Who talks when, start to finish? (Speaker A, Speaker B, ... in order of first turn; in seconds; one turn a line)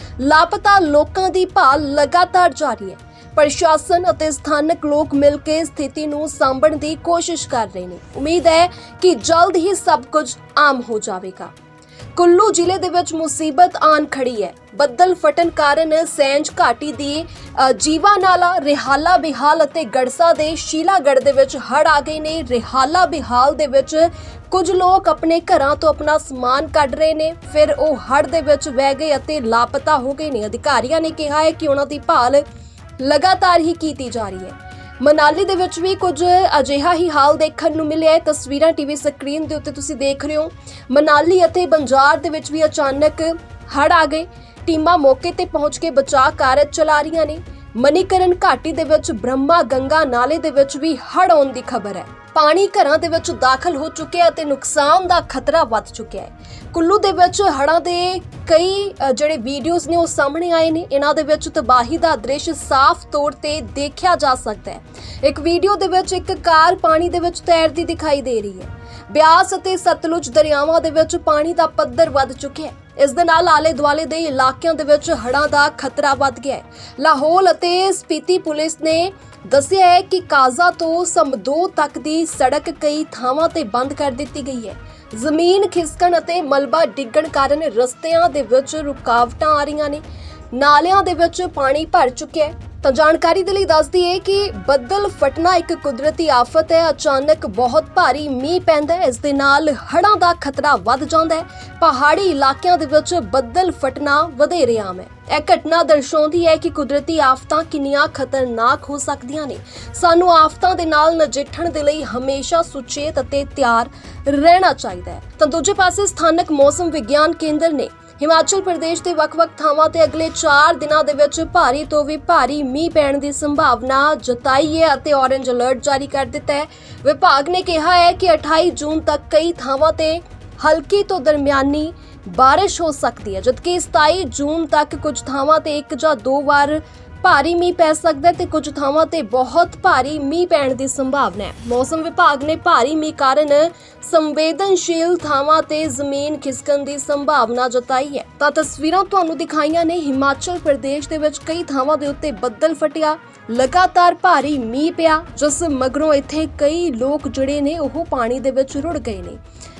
Speaker A: 0.2-11.5
Speaker A: 12.1-32.4
Speaker A: 33.0-159.4